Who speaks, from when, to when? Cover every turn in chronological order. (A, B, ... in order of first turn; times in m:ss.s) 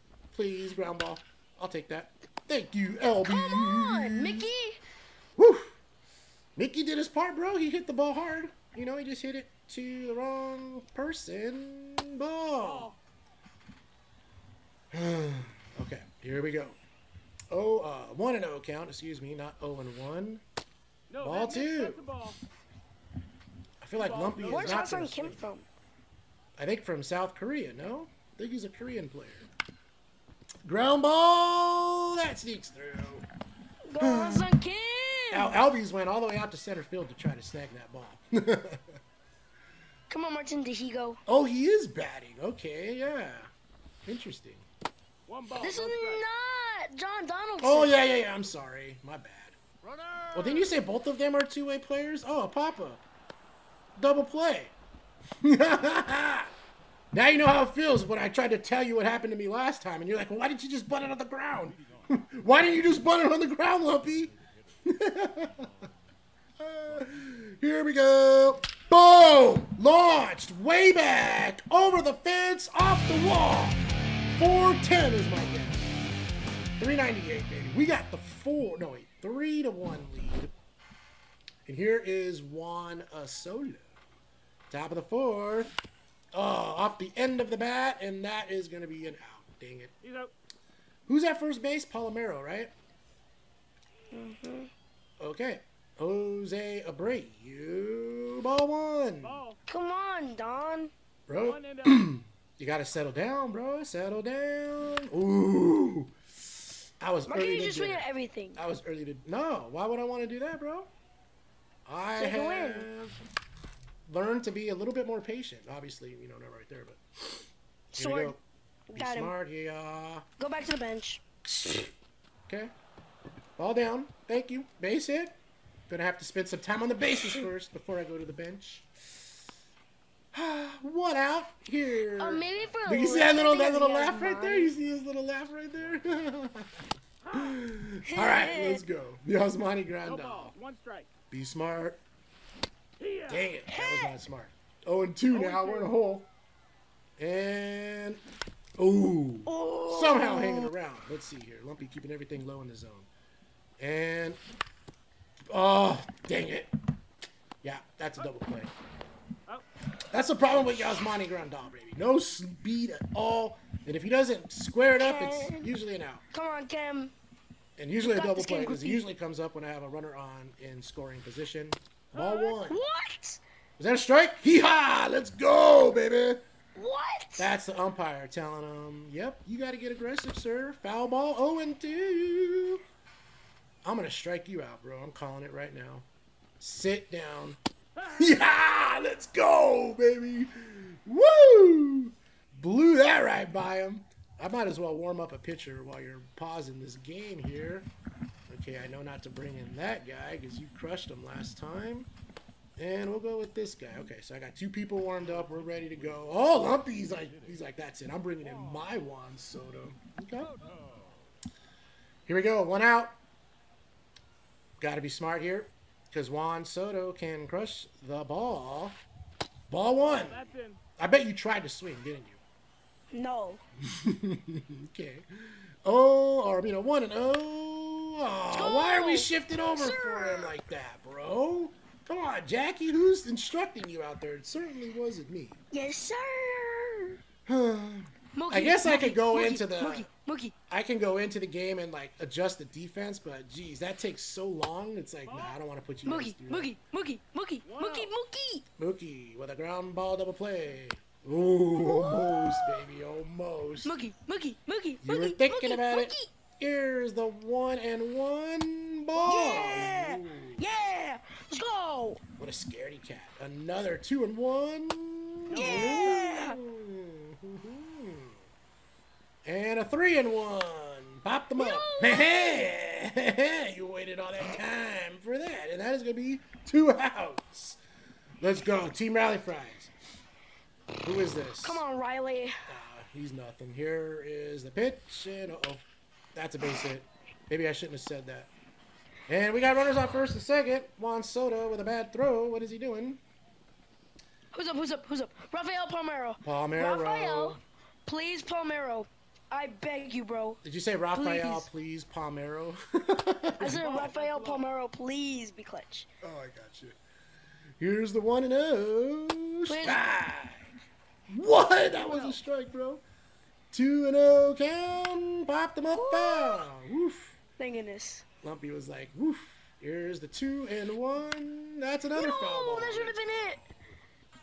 0:00.3-0:04.5 A
0:03.2-0:04.8 B
0:05.4-0:05.8 A
0:06.6-0:12.9 A
0:12.6-0:13.0 C
0:14.9-0:16.8 A
0:17.5-0:20.4 A
0:21.1-0:22.4 C
0:21.2-0:22.0 A
0:23.8-0:25.4 A
0:24.0-0:24.8 C
0:24.5-0:25.7 B
0:26.6-0:29.5 A
0:30.6-0:33.2 A
0:33.9-0:35.6 B
0:34.0-0:34.5 A
0:35.3-0:39.0 A
0:40.1-0:41.2 B
0:41.3-0:43.5 A
0:44.1-0:44.7 A
0:45.3-0:46.2 C
0:45.6-0:48.0 B
0:47.6-0:49.6 A
0:49.8-0:50.8 C
0:50.3-0:53.0 A
0:54.0-0:54.7 A
0:55.4-0:56.5 A
0:57.1-1:05.7 A
1:06.6-1:13.8 A
1:14.4-1:15.9 A
1:16.8-1:20.5 A
1:21.7-1:23.9 A
1:24.7-1:25.8 A
1:26.3-1:29.9 A
1:30.0-1:30.3 C
1:31.1-1:32.7 A
1:34.1-1:34.7 B
1:35.2-1:39.4 A
1:39.2-1:39.6 C
1:39.7-1:40.9 B
1:41.3-1:46.1 A
1:41.4-1:42.1 C
1:47.0-1:50.9 A
1:47.3-1:48.6 B
1:51.9-1:53.2 A
1:52.2-1:52.9 B
1:54.1-1:57.4 A
1:57.9-1:58.4 A
1:58.0-1:58.4 B
1:58.9-1:59.3 B
1:59.0-2:00.3 A
2:00.4-2:01.2 B
2:01.5-2:01.9 A
2:03.6-2:05.4 A
2:05.9-2:08.9 A
2:10.3-2:16.7 A
2:12.2-2:14.7 B
2:17.2-2:17.6 C
2:17.3-2:20.5 A
2:18.1-2:18.8 B
2:20.1-2:21.1 C
2:21.3-2:22.0 A
2:23.0-2:23.5 C
2:23.3-2:26.3 A
2:23.7-2:24.1 B
2:25.3-2:25.9 C
2:27.2-2:28.2 A
2:28.8-2:33.1 A
2:29.5-2:30.7 B
2:33.8-2:34.4 A
2:35.5-2:36.7 A
2:37.6-2:38.7 A
2:40.1-2:46.2 A
2:45.0-2:45.7 B
2:46.3-2:47.1 B
2:47.8-2:52.8 A
2:48.0-2:49.1 B
2:52.1-2:52.6 C
2:52.6-2:53.4 B
2:53.8-2:56.4 A
2:56.8-2:57.5 B
2:57.4-3:02.8 A
3:03.8-3:06.1 A
3:06.6-3:17.9 A
3:08.0-3:08.4 C
3:18.5-3:22.1 A
3:22.8-3:30.5 A
3:30.5-3:31.2 C
3:32.3-3:33.2 A
3:34.8-3:39.0 A
3:39.7-3:40.4 A
3:40.0-3:40.8 C
3:41.0-3:42.4 A
3:43.1-3:43.6 B
3:43.9-3:55.6 A
3:48.5-3:50.5 B
3:55.7-3:57.2 B
3:57.5-4:00.1 A
3:58.3-4:00.6 B
4:00.7-4:06.7 A
4:05.3-4:05.6 C
4:06.0-4:08.7 B
4:07.6-4:08.1 C
4:08.8-4:13.9 A
4:11.8-4:12.9 B
4:13.8-4:16.3 B
4:15.0-4:20.6 A
4:19.2-4:22.2 B
4:22.4-4:28.4 A
4:25.5-4:26.3 C
4:25.5-4:26.6 B
4:29.4-4:37.8 A
4:31.6-4:32.7 B
4:38.4-4:39.9 A
4:41.0-4:41.8 A
4:41.6-4:42.6 B
4:42.7-4:48.5 A
4:49.3-4:53.2 A
4:54.5-5:00.6 B
4:56.4-4:57.6 A
5:00.6-5:04.1 A
5:01.2-5:01.7 B
5:03.6-5:06.1 B
5:03.7-5:04.7 C
5:06.2-5:07.0 A
5:07.8-5:10.8 A
5:09.7-5:10.0 B
5:11.3-5:13.0 A
5:12.0-5:12.4 C
5:13.7-5:17.4 A
5:15.9-5:16.7 B
5:17.6-5:18.2 B
5:18.4-5:23.2 A
5:22.1-5:23.6 B